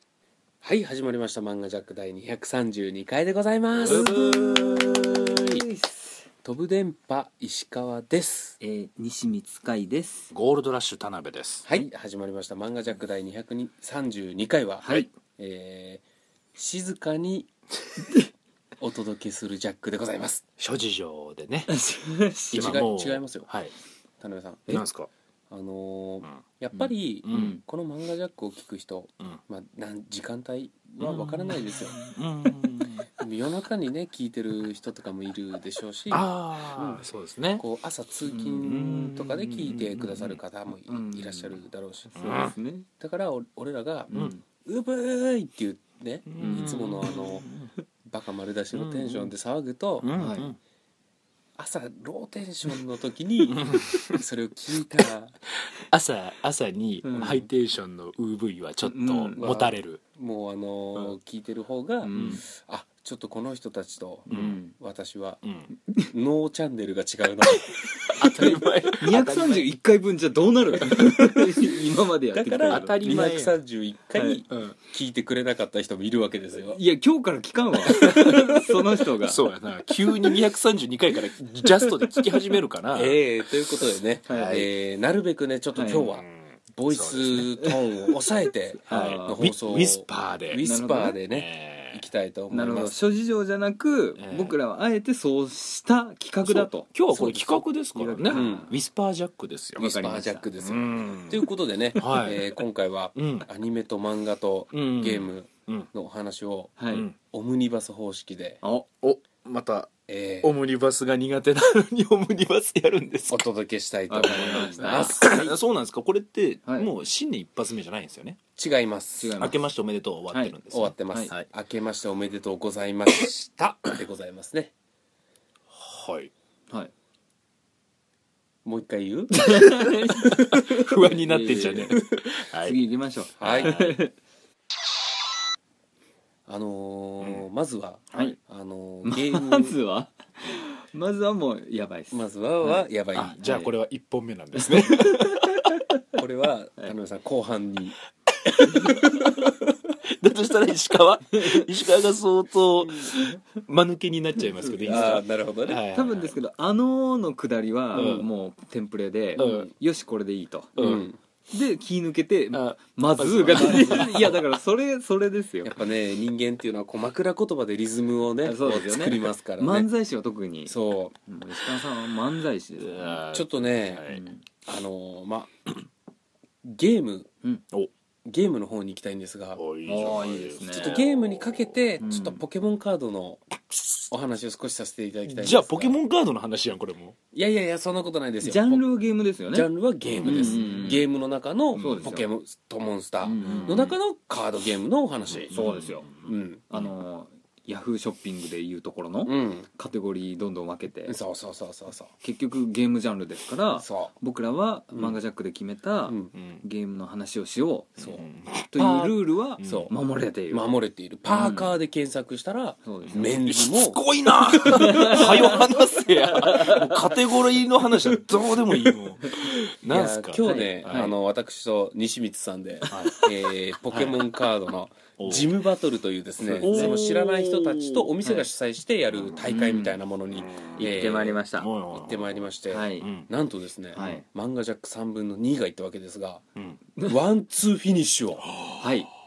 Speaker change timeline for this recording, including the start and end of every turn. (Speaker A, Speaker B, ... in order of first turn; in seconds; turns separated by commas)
Speaker A: 0.6-5.6, Speaker B: 3.8-5.4, Speaker C: 3.9-6.3, Speaker A: 6.4-8.6, Speaker C: 8.6-10.3, Speaker B: 10.3-11.7, Speaker A: 11.7-16.0, Speaker C: 14.8-15.1, Speaker A: 16.6-17.5, Speaker A: 18.8-20.4, Speaker B: 20.6-21.7, Speaker C: 21.7-22.8, Speaker B: 22.5-23.7, Speaker A: 22.5-23.5, Speaker A: 24.2-24.8, Speaker B: 24.7-25.1, Speaker A: 25.5-32.0, Speaker C: 26.8-27.6, Speaker B: 27.3-27.6, Speaker B: 31.0-33.1, Speaker A: 33.2-37.0, Speaker B: 36.1-37.6, Speaker A: 37.6-42.4, Speaker C: 38.3-38.8, Speaker B: 38.6-40.4, Speaker C: 40.9-41.6, Speaker C: 42.1-42.9, Speaker B: 42.2-42.5, Speaker A: 43.0-47.5, Speaker C: 44.1-44.4, Speaker B: 46.3-47.7, Speaker C: 46.4-46.8, Speaker A: 48.0-50.1, Speaker B: 48.7-49.3, Speaker B: 50.0-50.6, Speaker C: 50.1-50.5, Speaker A: 51.6-55.4, Speaker B: 53.5-54.2, Speaker B: 55.8-60.0, Speaker C: 57.0-57.4, Speaker C: 58.9-59.4, Speaker A: 59.4-65.4, Speaker C: 62.0-62.4, Speaker B: 62.1-62.4, Speaker C: 64.3-64.7, Speaker B: 64.3-64.6, Speaker B: 65.4-65.7, Speaker A: 66.0-67.7, Speaker B: 67.7-69.7, Speaker C: 68.2-73.0, Speaker B: 70.7-71.6, Speaker A: 72.3-76.8, Speaker B: 72.7-73.6, Speaker B: 74.5-74.8, Speaker C: 76.7-79.4, Speaker B: 77.8-83.2, Speaker C: 81.8-82.2, Speaker A: 82.9-93.0, Speaker C: 84.3-84.7, Speaker B: 84.3-84.7, Speaker C: 85.8-86.1, Speaker B: 86.2-87.5, Speaker C: 88.8-89.5, Speaker B: 88.9-90.6, Speaker C: 90.6-91.2, Speaker B: 91.3-92.1, Speaker C: 92.5-96.9, Speaker B: 94.2-94.6, Speaker B: 96.4-100.0, Speaker A: 97.1-98.7, Speaker C: 98.0-98.7, Speaker C: 99.8-100.4, Speaker A: 99.8-108.6, Speaker B: 100.6-102.6, Speaker B: 103.2-103.5, Speaker B: 104.7-105.9, Speaker C: 106.8-107.1, Speaker C: 108.6-108.9, Speaker B: 109.0-109.9, Speaker A: 110.1-110.5, Speaker B: 110.4-113.5, Speaker A: 113.3-115.5, Speaker C: 114.1-115.2, Speaker B: 114.3-118.4, Speaker A: 118.6-119.4, Speaker C: 119.2-119.6, Speaker B: 119.4-121.5, Speaker A: 120.7-124.7, Speaker B: 125.7-126.3, Speaker A: 128.6-129.5, Speaker C: 129.3-134.1, Speaker B: 129.6-132.8, Speaker A: 133.4-133.7, Speaker B: 133.4-134.0, Speaker A: 136.5-139.8, Speaker B: 137.2-137.4, Speaker C: 139.0-142.8, Speaker A: 142.1-143.6, Speaker B: 143.1-145.5, Speaker C: 144.6-146.2, Speaker A: 146.2-148.0, Speaker B: 148.6-149.0, Speaker C: 148.7-149.3, Speaker A: 148.7-149.0, Speaker B: 150.0-156.3, Speaker C: 151.3-151.7, Speaker C: 154.5-155.2, Speaker A: 154.8-155.8, Speaker C: 155.9-160.9, Speaker B: 157.9-158.3, Speaker A: 157.9-158.3, Speaker A: 159.3-159.7, Speaker B: 159.4-159.7, Speaker B: 160.8-161.0, Speaker A: 160.8-161.2, Speaker C: 161.5-165.8, Speaker B: 162.5-164.6, Speaker A: 163.5-164.1, Speaker A: 165.6-169.9, Speaker C: 168.4-170.7, Speaker A: 170.7-171.2, Speaker C: 171.3-173.2, Speaker B: 172.8-174.2, Speaker A: 173.3-174.1, Speaker C: 174.1-174.4, Speaker A: 174.7-175.5, Speaker A: 176.6-177.3, Speaker A: 178.2-179.6, Speaker B: 179.6-182.2, Speaker C: 179.8-181.0, Speaker A: 180.7-185.9, Speaker C: 182.0-182.4, Speaker B: 185.3-187.2, Speaker A: 187.3-188.8, Speaker C: 188.4-189.7, Speaker A: 189.5-196.7, Speaker B: 190.0-190.9, Speaker C: 190.2-191.0, Speaker C: 191.8-192.3, Speaker C: 193.2-193.9, Speaker B: 193.4-194.0, Speaker B: 195.3-196.9, Speaker C: 195.5-196.1, Speaker C: 196.7-201.1, Speaker A: 199.2-199.7, Speaker A: 201.1-202.1, Speaker C: 202.2-207.9, Speaker A: 203.7-204.1, Speaker A: 206.1-206.3, Speaker B: 206.3-206.6, Speaker A: 208.0-209.9, Speaker B: 208.0-208.7, Speaker C: 208.7-210.7, Speaker B: 209.6-209.9, Speaker A: 210.5-215.6, Speaker C: 211.3-211.7, Speaker C: 212.8-213.3, Speaker B: 213.0-221.1, Speaker C: 214.6-217.1, Speaker A: 219.4-236.4, Speaker C: 220.4-221.1, Speaker C: 222.8-223.2, Speaker B: 222.9-223.3, Speaker B: 223.9-224.3, Speaker B: 225.2-225.6, Speaker B: 226.4-228.1, Speaker C: 226.6-227.0, Speaker B: 229.1-233.3, Speaker C: 229.4-229.9, Speaker C: 230.8-231.7, Speaker C: 232.7-233.1, Speaker C: 233.9-234.2, Speaker A: 237.0-238.5, Speaker B: 238.4-238.8, Speaker C: 238.8-239.1